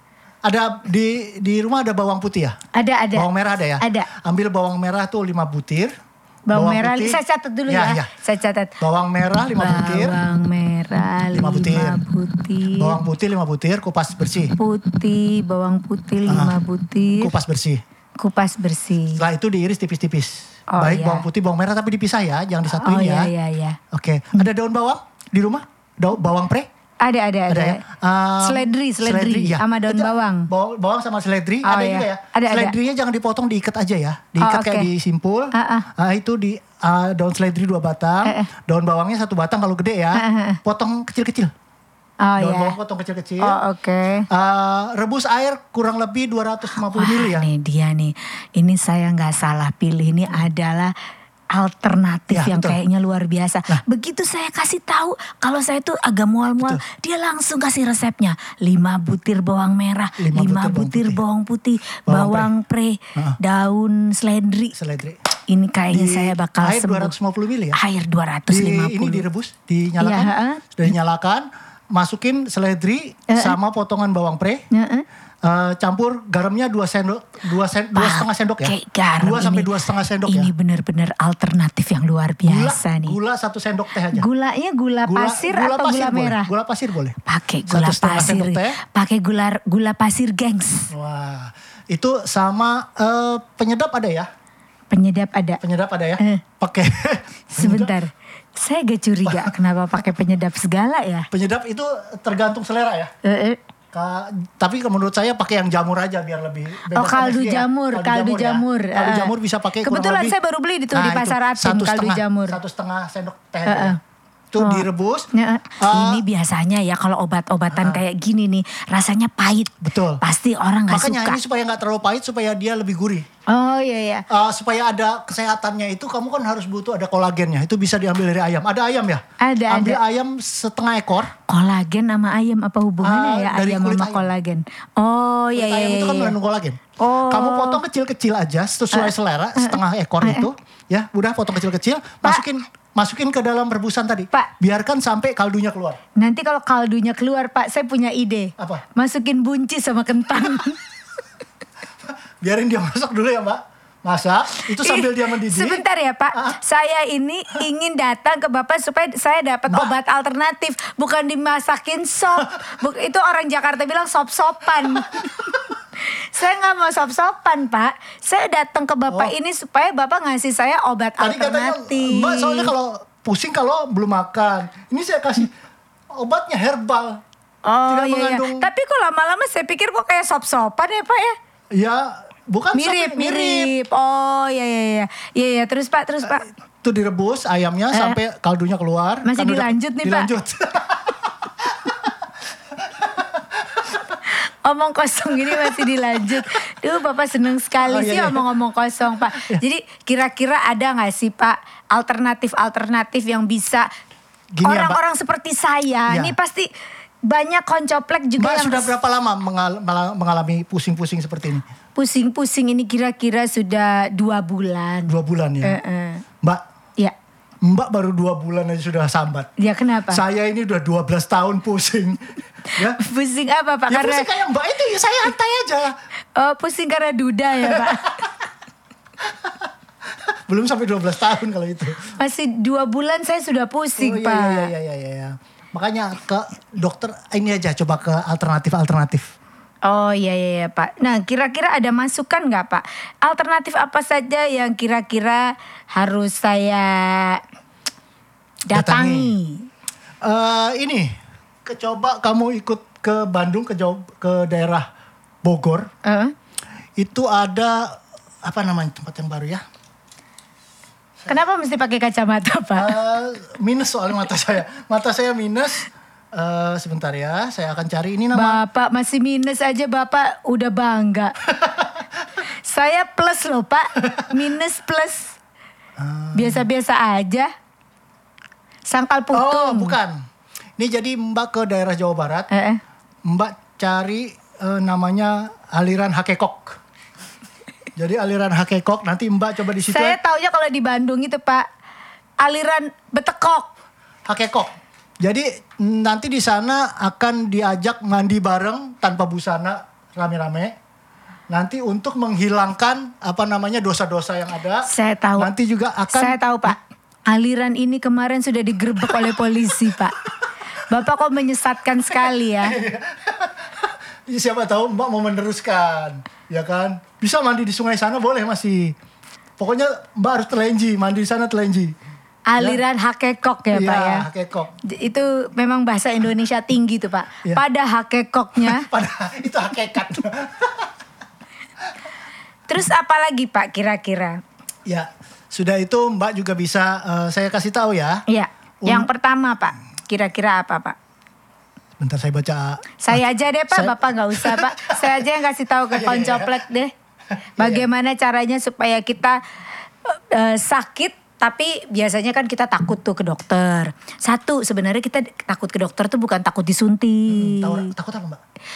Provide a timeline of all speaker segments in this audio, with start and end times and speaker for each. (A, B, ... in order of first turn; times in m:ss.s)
0:00.4-0:02.6 A
0:02.7-0:03.3 B
0:03.1-0:05.9 A
0:03.8-0:04.1 B
0:06.5-0:08.8 B
0:06.5-0:08.1 A
0:08.8-0:10.2 A
0:09.6-0:13.0 B
0:11.3-0:12.0 A
0:12.7-0:14.6 A
0:14.6-0:17.3 B
0:16.3-0:16.6 A
0:17.2-0:17.8 A
0:18.2-0:19.2 B
0:19.1-0:23.3 A
0:20.7-0:21.2 B
0:22.7-0:23.8 B
0:23.9-0:26.7 A
0:27.0-0:27.8 B
0:27.5-0:41.5 A
0:28.4-0:30.5 B
0:31.6-0:32.7 B
0:34.4-0:34.9 B
0:35.5-0:35.9 B
0:40.1-0:40.6 B
0:42.2-0:42.7 B
0:42.4-0:43.6 A
0:43.4-0:44.3 B
0:44.3-0:47.5 A
0:46.9-0:50.9 B
0:51.5-1:04.7 B
0:52.3-0:52.8 A
1:00.2-1:01.2 A
1:02.1-1:02.5 A
1:04.7-1:05.2 A
1:05.5-1:07.1 B
1:05.9-1:07.8 A
1:07.7-1:09.2 B
1:08.5-1:14.6 A
1:10.0-1:10.6 B
1:13.3-1:13.5 B
1:14.7-1:15.0 B
1:15.4-1:20.5 A
1:17.9-1:19.7 B
1:20.2-1:23.2 B
1:22.4-1:24.3 A
1:24.1-1:26.5 B
1:25.0-1:28.8 A
1:27.2-1:30.9 B
1:30.9-1:34.3 A
1:34.9-1:35.6 B
1:35.6-1:37.9 A
1:37.5-1:41.3 B
1:39.2-1:39.5 A
1:41.3-1:43.1 A
1:43.2-1:43.6 B
1:43.9-1:50.3 A
1:46.9-1:49.3 B
1:49.8-1:52.6 B
1:50.9-1:54.0 A
1:53.6-1:54.0 B
1:54.5-1:55.3 A
1:54.6-2:01.4 B
1:55.8-1:56.2 A
1:57.7-1:58.0 A
1:59.8-2:00.2 A
2:00.9-2:03.3 A
2:03.5-2:04.2 B
2:04.3-2:11.3 A
2:09.4-2:10.0 B
2:11.5-2:16.3 B
2:13.0-2:14.3 A
2:15.5-2:26.0 A
2:17.0-2:17.8 B
2:18.9-2:20.5 B
2:26.2-2:30.8 B
2:28.6-2:28.8 A
2:32.0-2:36.6 A
2:34.7-2:52.7 B
2:39.7-2:39.9 A
2:51.2-2:55.5 A
2:56.1-2:57.2 A
2:57.6-3:01.4 B
2:57.9-2:58.7 A
3:01.7-3:03.7 A
3:02.7-3:06.5 B
3:06.8-3:12.0 A
3:07.9-3:08.2 B
3:09.2-3:10.3 B
3:14.2-3:23.9 B
3:15.5-3:15.8 A
3:17.8-3:18.4 A
3:19.4-3:19.6 A
3:24.5-3:25.0 A
3:24.6-3:26.7 B
3:26.1-3:26.4 A
3:27.2-3:28.9 B
3:28.4-3:31.6 A
3:32.0-3:36.2 B
3:35.1-3:35.8 A
3:37.6-3:39.5 A
3:39.6-3:40.2 B
3:40.1-3:43.0 A
3:42.8-3:44.3 B
3:43.9-3:45.9 A
3:46.4-3:48.3 B
3:47.6-3:48.2 A
3:49.2-3:52.1 A
3:52.2-3:54.7 B
3:54.0-3:59.3 A
3:59.8-4:07.4 B
4:08.7-4:09.7 B
4:08.7-4:09.3 A
4:10.2-4:14.9 A
4:15.4-4:15.9 A
4:16.0-4:16.3 B
4:17.0-4:19.6 A
4:21.3-4:23.0 B
4:22.8-4:28.6 A
4:28.3-4:31.3 B
4:31.5-4:31.9 A
4:32.4-4:35.4 B
4:36.0-4:36.6 A
4:36.3-4:37.5 B
4:38.9-4:40.0 B
4:39.3-4:40.2 A
4:40.8-4:42.5 A
4:42.5-4:42.8 B
4:43.2-4:46.8 A
4:48.0-4:50.2 A
4:49.9-4:51.7 B
4:52.4-4:53.7 B
4:54.2-5:00.8 A
5:01.5-5:06.8 A
5:04.8-5:05.5 B
5:06.1-5:10.2 B
5:10.8-5:12.8 B
5:12.6-5:19.0 A
5:19.6-5:21.9 A
5:22.5-5:24.2 B
5:23.7-5:24.7 A
5:24.8-5:28.9 B
5:28.6-5:30.9 A
5:32.7-5:34.4 B
5:34.8-5:38.2 A
5:38.3-5:41.0 B
5:38.8-5:39.1 A
5:42.0-5:45.2 A
5:43.0-5:46.9 B
5:45.9-5:46.6 A
5:47.6-5:47.8 A
5:47.6-5:49.4 B
5:50.0-5:57.9 B
5:57.3-5:58.4 A